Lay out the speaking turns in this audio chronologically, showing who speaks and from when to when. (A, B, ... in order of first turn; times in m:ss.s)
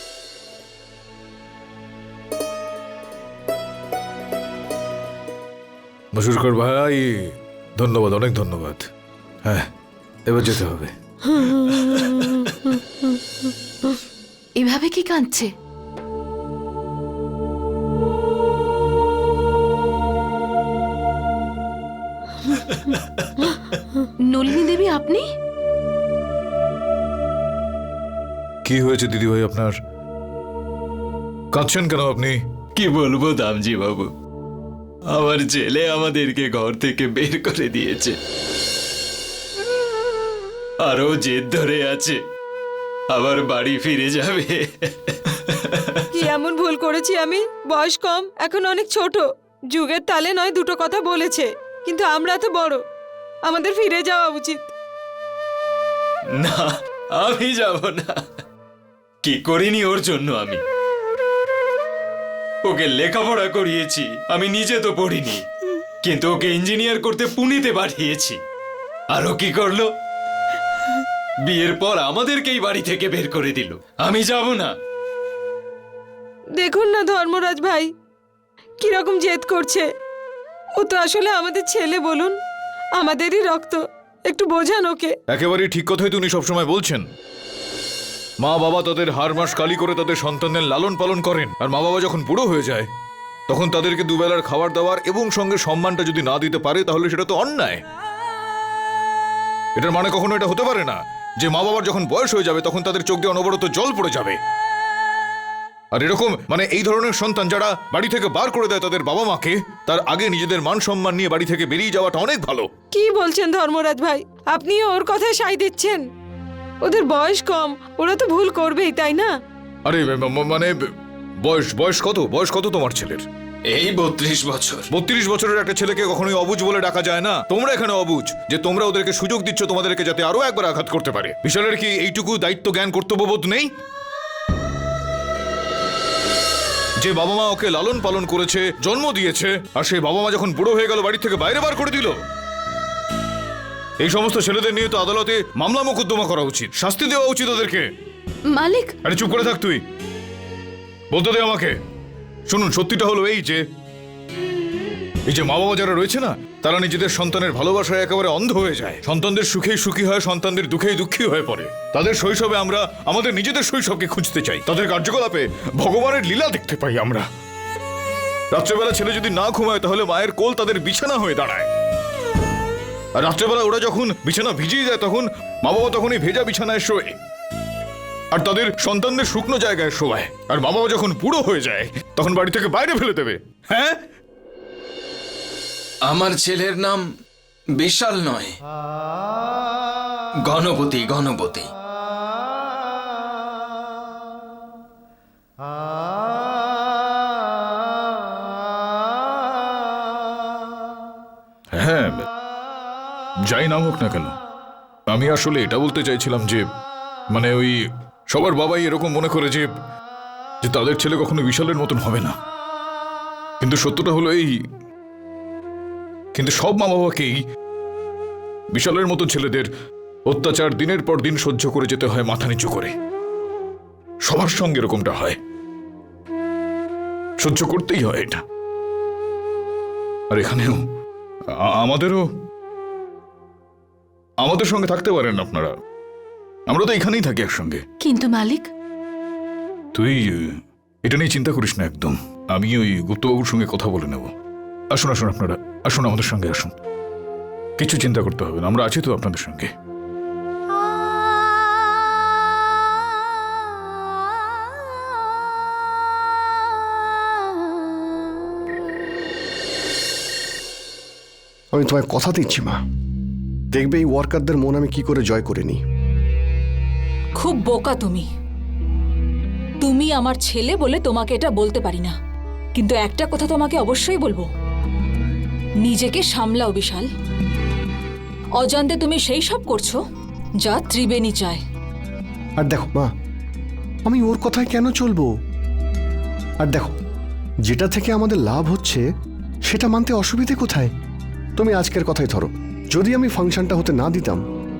0:06.1-0:08.9 A
0:10.3-0:12.2 A
0:14.6-0:15.5 B
0:22.6-0:23.6 C
0:24.2-0:25.2 B
0:28.6-0:29.8 A
0:31.5-0:32.4 A
0:32.8-0:34.1 C
0:35.1-0:38.2 C
0:40.8-0:42.2 C
0:43.1-0:46.0 C
0:46.1-0:52.8 D
0:53.4-0:54.7 D
0:56.4-0:58.2 C
0:59.2-1:00.6 C
1:02.6-1:05.4 C
1:06.0-1:08.4 C
1:09.1-1:09.9 C
1:11.4-1:14.7 C
1:16.5-1:17.9 D
1:18.8-1:19.9 D
1:20.7-1:22.4 D
1:22.9-1:25.2 D
1:25.3-1:27.0 A
1:28.4-1:32.9 A
1:33.5-1:37.8 A
1:39.8-1:44.4 A
1:45.9-1:52.7 A
1:52.9-1:56.1 D
1:56.8-1:59.4 D
1:59.8-2:00.7 A
2:01.4-2:03.2 A
2:03.7-2:04.8 C
2:04.9-2:13.7 A
2:17.0-2:22.2 A
2:24.0-2:27.9 A
2:28.5-2:28.9 B
2:29.0-2:29.8 A
2:31.1-2:31.7 A
2:32.5-2:33.6 A
2:35.3-2:47.2 A
2:48.5-2:51.7 A
2:53.2-2:57.2 A
2:58.3-3:04.0 A
3:06.0-3:07.0 C
3:07.8-3:08.5 C
3:10.4-3:11.7 C
3:21.7-3:22.3 A
3:23.5-3:24.3 A
3:25.1-3:26.6 A
3:27.3-3:27.8 A
3:28.3-3:29.7 A
3:30.6-3:32.3 A
3:33.6-3:34.6 A
3:36.3-3:37.4 A
3:38.7-3:39.7 A
3:40.3-3:42.9 A
3:44.2-3:45.4 A
3:47.4-3:48.4 A
3:50.3-3:50.8 A
3:51.6-3:52.2 A
3:54.4-3:55.7 A
3:56.7-3:57.8 A
3:58.0-3:58.7 B
3:59.9-4:00.5 A
4:01.0-4:04.3 A
4:04.9-4:06.7 A
4:07.8-4:09.7 A
4:21.7-4:22.8 E
4:23.7-4:25.8 E
4:27.4-4:28.3 F
4:29.8-4:32.1 F
4:32.7-4:34.5 F
4:35.8-4:37.1 F
4:38.6-4:40.0 F
4:40.6-4:41.6 F
4:42.6-4:43.1 E
4:44.0-4:45.3 E
4:46.6-4:46.9 E
4:47.7-4:49.0 E
4:49.6-4:50.9 E
4:51.6-4:54.4 E